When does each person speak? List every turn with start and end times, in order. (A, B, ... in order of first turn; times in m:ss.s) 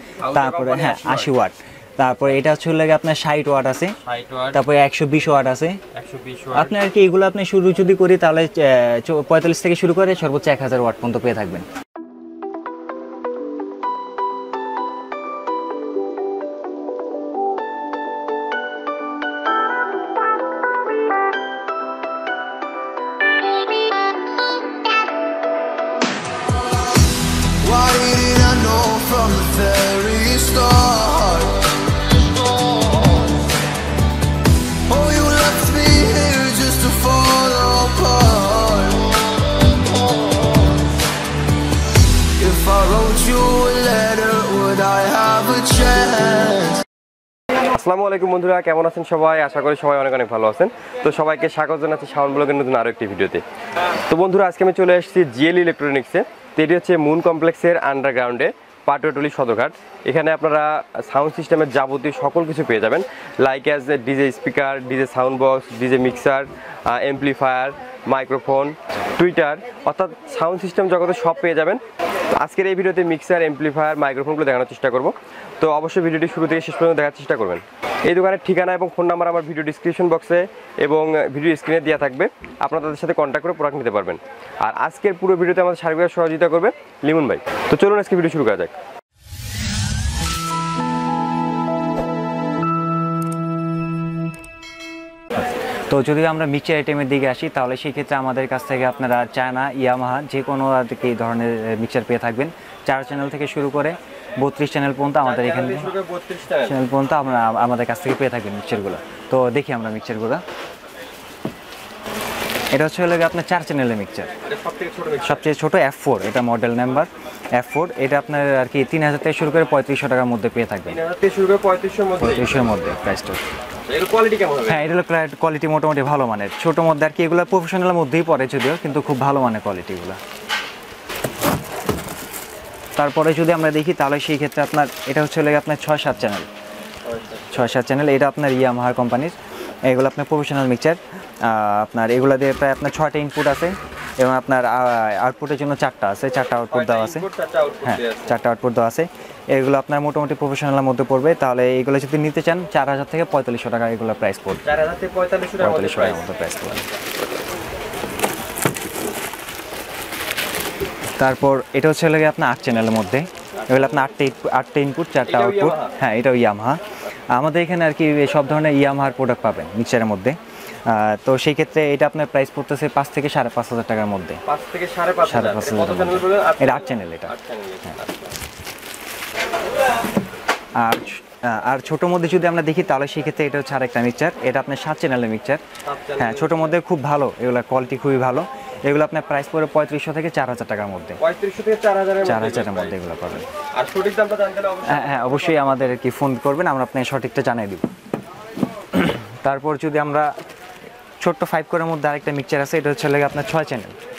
0:00.2-0:01.4 A
0:00.3-0:04.0 B
0:04.0-0:04.6 A
0:04.5-0:05.8 B
0:05.9-0:06.8 A
0:06.5-0:11.7 B
0:27.6-0:31.7 C
0:34.9-0:39.0 C
0:42.4-0:46.5 C
0:47.7-0:53.4 A
0:54.1-1:28.7 A
1:35.9-1:45.9 B
1:45.2-1:46.8 A
1:46.6-1:50.4 B
1:52.7-1:54.3 B
1:54.4-1:55.4 A
1:55.2-2:01.0 B
2:00.8-2:02.7 A
2:02.2-2:03.4 B
2:03.9-2:04.9 A
2:04.6-2:10.2 B
2:13.0-2:16.5 B
2:17.0-2:17.6 A
2:17.5-2:27.2 B
2:26.7-2:28.3 A
2:27.8-2:34.7 B
2:34.6-2:36.2 A
2:35.6-2:36.9 B
2:41.2-2:46.8 B
2:43.6-2:44.0 A
2:45.2-2:46.0 A
2:47.3-2:54.4 B
2:54.4-2:58.4 A
2:55.2-2:57.3 B
3:00.8-3:05.6 B
3:05.8-3:06.7 A
3:06.2-3:11.2 B
3:11.2-3:13.0 A
3:12.2-3:13.4 B
3:13.8-3:15.9 A
3:14.8-3:17.8 B
3:18.9-3:20.3 B
3:21.2-3:24.0 B